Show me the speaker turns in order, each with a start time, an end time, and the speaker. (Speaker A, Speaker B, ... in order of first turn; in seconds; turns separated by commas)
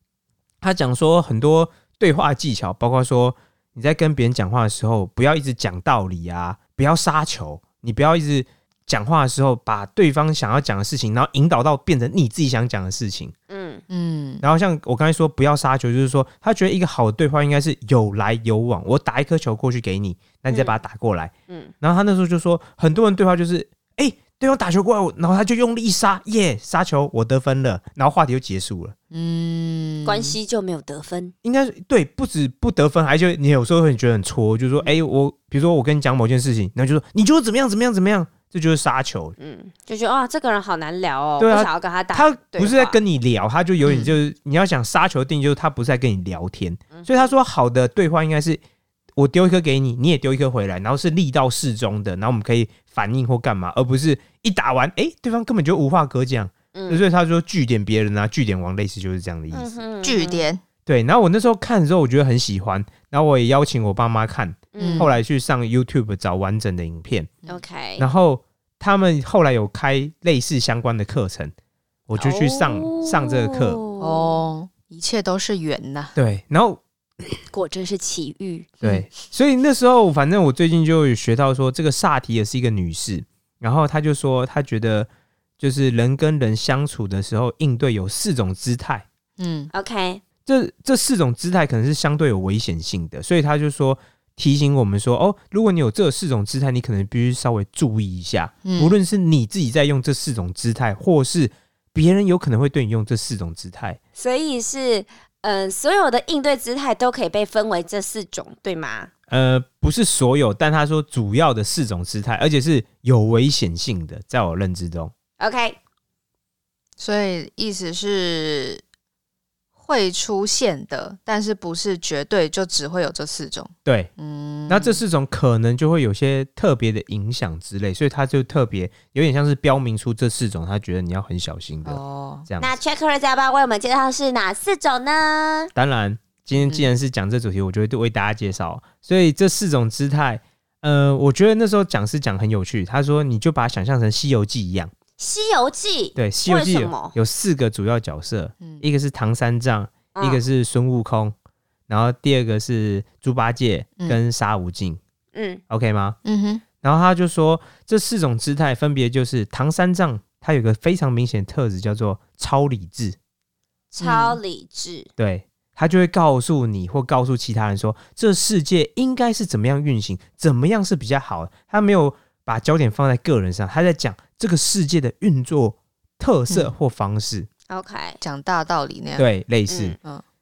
Speaker A: 0.6-13.3, Speaker B: 13.5-13.8, Speaker C: 13.9-14.4, Speaker A: 14.4-28.9, Speaker B: 20.5-20.8, Speaker C: 29.1-30.3, Speaker B: 30.0-31.3, Speaker A: 31.4-39.4, Speaker B: 39.4-43.0, Speaker A: 41.4-48.6, Speaker C: 43.8-44.1, Speaker B: 46.9-47.3, Speaker A: 49.1-59.8, Speaker B: 56.7-57.0, Speaker B: 59.5-60.5, Speaker C: 60.0-60.6, Speaker A: 60.9-67.3, Speaker B: 64.7-65.1, Speaker C: 64.8-65.1, Speaker B: 67.5-68.1, Speaker A: 68.0-71.5, Speaker A: 72.1-73.8, Speaker B: 72.2-74.3, Speaker C: 74.0-76.1, Speaker A: 76.2-76.8, Speaker B: 77.5-78.7, Speaker A: 78.8-85.1, Speaker A: 85.6-89.0, Speaker C: 89.4-89.7, Speaker B: 89.7-90.2, Speaker A: 90.5-104.0, Speaker C: 98.6-99.0, Speaker B: 104.2-109.1, Speaker A: 109.3-115.1, Speaker B: 115.4-115.8, Speaker C: 117.0-118.8, Speaker C: 119.8-125.0, Speaker A: 123.8-124.1, Speaker A: 124.7-132.8, Speaker C: 131.8-132.5, Speaker B: 132.6-135.7, Speaker A: 135.8-144.9, Speaker C: 136.6-136.9, Speaker B: 145.2-147.1, Speaker A: 146.2-151.3, Speaker B: 150.1-150.4, Speaker A: 151.9-155.0, Speaker B: 155.3-155.6, Speaker A: 155.7-156.2, Speaker C: 156.2-156.6, Speaker A: 156.8-163.2, Speaker B: 163.9-165.1, Speaker C: 164.0-164.4, Speaker A: 165.2-177.5, Speaker B: 177.7-178.2, Speaker C: 178.2-179.3, Speaker A: 179.2-180.0, Speaker B: 179.7-180.0